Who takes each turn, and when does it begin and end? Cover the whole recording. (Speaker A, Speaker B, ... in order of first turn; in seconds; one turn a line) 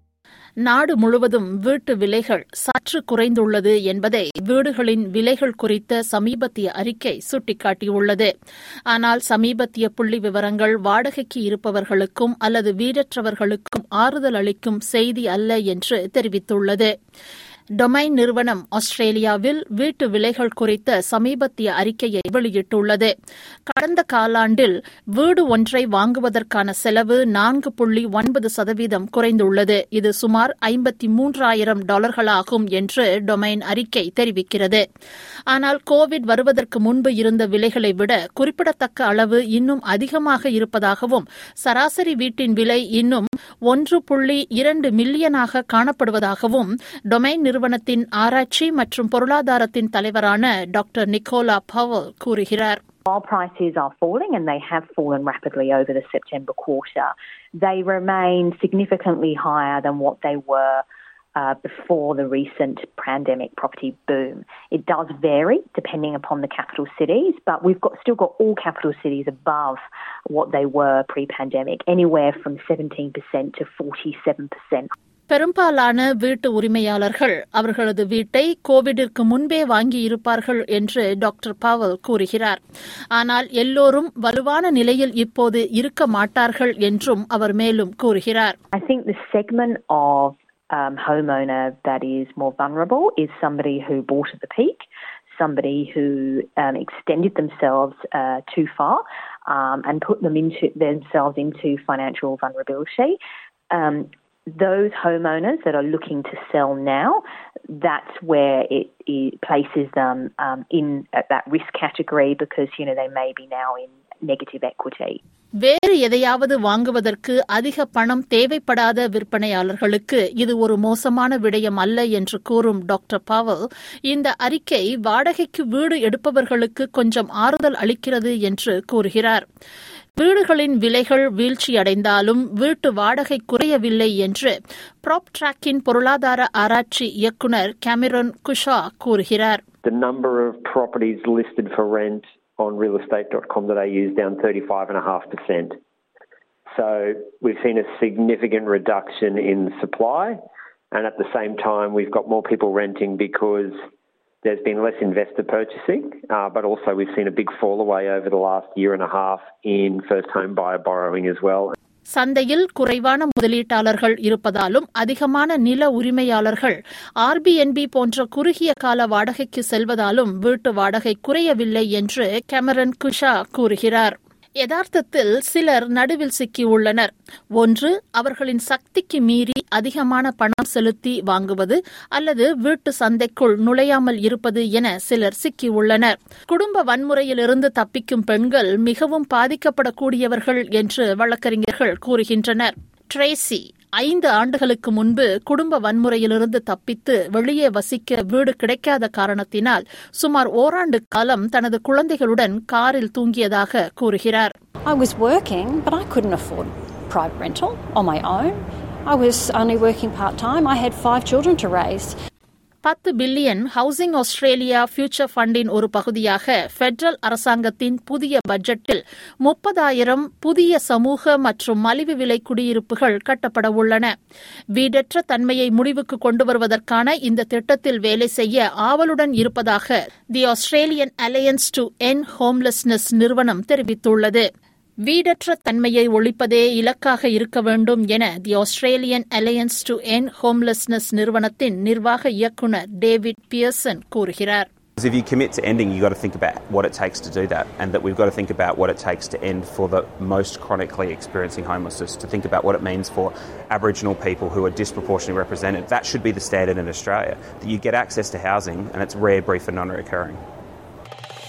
Speaker A: 0.6-8.3
Speaker A: 8.9-16.9
Speaker A: 17.8-23.1
Speaker A: 23.7-34.8
Speaker A: 35.5-52.8
Speaker B: 53.1-60.8
Speaker B: 61.4-74.9
Speaker A: 75.3-82.6
Speaker A: 83.2-88.5
Speaker B: 88.7-103.2
Speaker B: 103.7-115.2
Speaker A: 115.6-129.4
Speaker A: 130.2-139.6
Speaker C: 139.8-145.8
Speaker C: 146.7-150.4
Speaker C: 150.9-153.8
Speaker C: 154.4-161.7
Speaker A: 162.1-204.5
Speaker D: 204.9-212.1
Speaker A: 212.8-224.1
Speaker A: 224.8-234.4
Speaker A: 235.1-244.7
Speaker E: 245.0-260.4